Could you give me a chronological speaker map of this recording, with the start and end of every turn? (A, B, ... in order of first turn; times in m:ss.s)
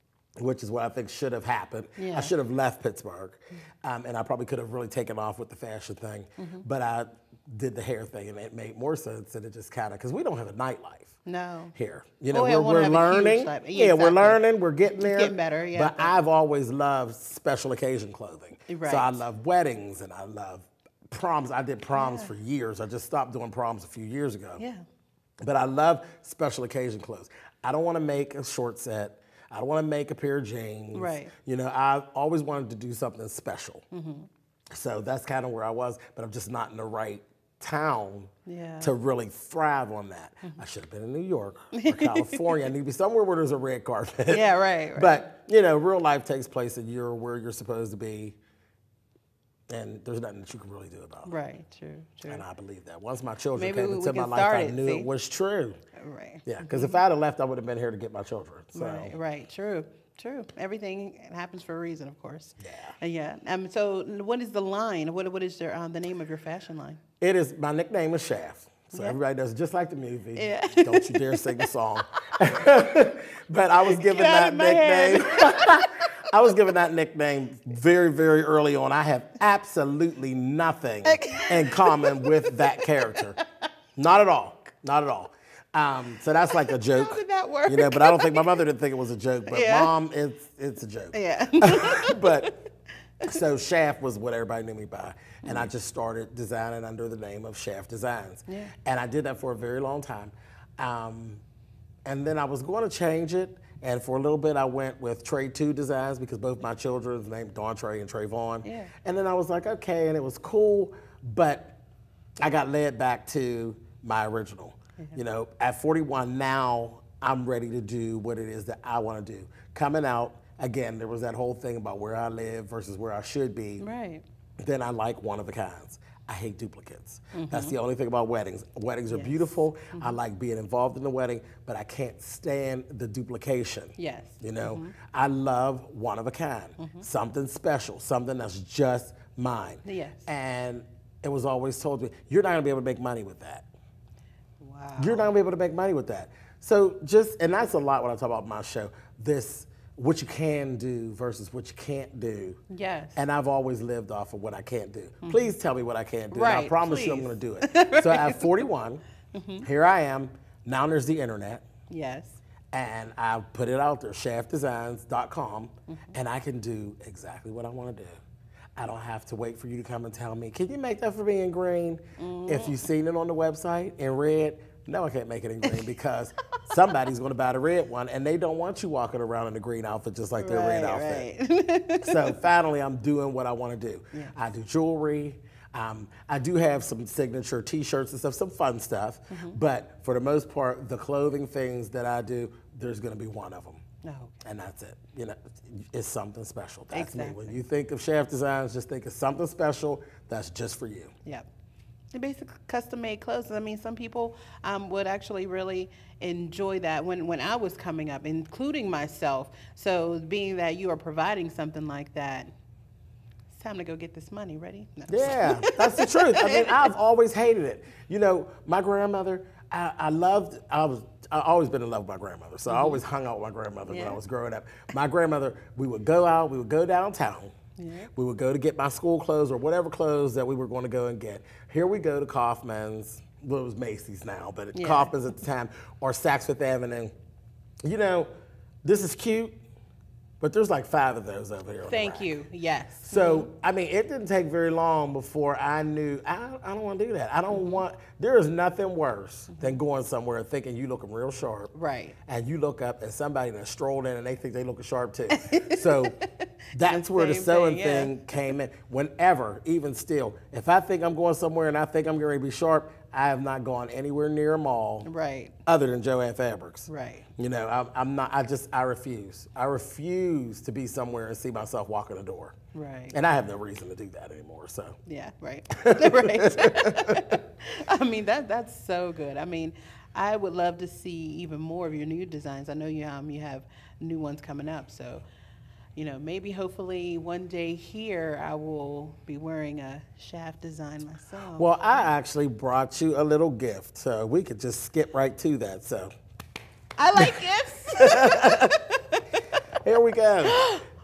0:00.4-0:11.1 A
0:02.0-0:02.3 B
0:06.4-0:06.6 B
0:11.2-0:11.7 B
0:11.7-0:24.6 A
0:12.3-0:14.4 B
0:15.0-0:16.1 B
0:18.7-0:19.2 B
0:21.9-0:22.3 B
0:24.6-0:24.8 B
0:25.4-0:33.8 A
0:30.9-0:31.3 B
0:33.9-0:34.3 B
0:34.7-0:48.4 A
0:38.4-0:38.9 B
0:41.7-0:42.5 B
0:44.3-0:45.2 B
0:49.7-0:51.3 A
0:51.2-0:52.4 B
0:52.3-0:55.8 A
0:53.6-0:55.1 B
0:56.0-0:57.0 B
0:56.4-0:59.1 A
0:58.7-1:07.0 B
1:02.6-1:02.9 A
1:07.2-1:23.4 A
1:08.9-1:09.2 B
1:10.3-1:11.7 B
1:13.8-1:16.0 B
1:21.0-1:23.4 B
1:24.0-1:32.5 A
1:26.5-1:28.6 B
1:29.5-1:29.9 B
1:31.1-1:32.6 B
1:33.2-1:41.4 A
1:38.5-1:38.7 B
1:42.0-1:51.8 A
1:48.6-1:48.9 B
1:52.4-2:03.8 A
2:03.8-2:04.2 B
2:04.6-2:23.7 A
2:07.3-2:07.8 B
2:09.1-2:10.2 B
2:14.0-2:14.9 B
2:16.8-2:17.1 B
2:19.8-2:20.3 B
2:24.6-2:25.3 B
2:25.0-2:32.6 A
2:32.7-2:33.2 B
2:33.2-2:39.0 A
2:35.2-2:35.6 B
2:36.3-2:38.6 B
2:39.3-2:39.7 B
2:39.6-2:41.6 A
2:41.9-2:42.4 B
2:42.7-2:48.2 A
2:48.8-3:01.2 A
2:52.2-2:52.9 B
3:00.4-3:02.4 B
3:02.0-3:13.8 A
3:09.3-3:09.6 B
3:14.0-3:14.4 B
3:14.4-3:21.1 A
3:16.9-3:17.6 B
3:22.1-3:32.5 B
3:33.5-3:36.9 B
3:35.1-3:47.5 A
3:42.7-3:43.0 B
3:43.9-3:44.2 B
3:47.8-3:48.1 B
3:48.1-3:57.1 A
3:54.7-3:55.1 B
3:57.8-3:58.3 A
3:58.8-3:59.6 A
4:00.4-4:02.3 A
4:01.9-4:03.5 B
4:03.1-4:11.7 A
4:07.5-4:07.8 B
4:09.5-4:09.8 B
4:11.7-4:12.2 B
4:12.3-4:16.2 A
4:15.3-4:18.5 B
4:16.7-4:25.1 A
4:25.0-4:25.5 B
4:25.6-4:32.5 A
4:26.9-4:27.3 B
4:32.7-4:33.2 B
4:33.1-4:35.0 A
4:35.0-4:45.2 B
4:35.7-4:37.3 A
4:46.0-4:52.1 B
4:51.5-4:56.1 A
4:57.0-4:59.4 B
4:58.0-4:58.7 A
4:59.8-5:00.6 A
5:00.4-5:00.8 B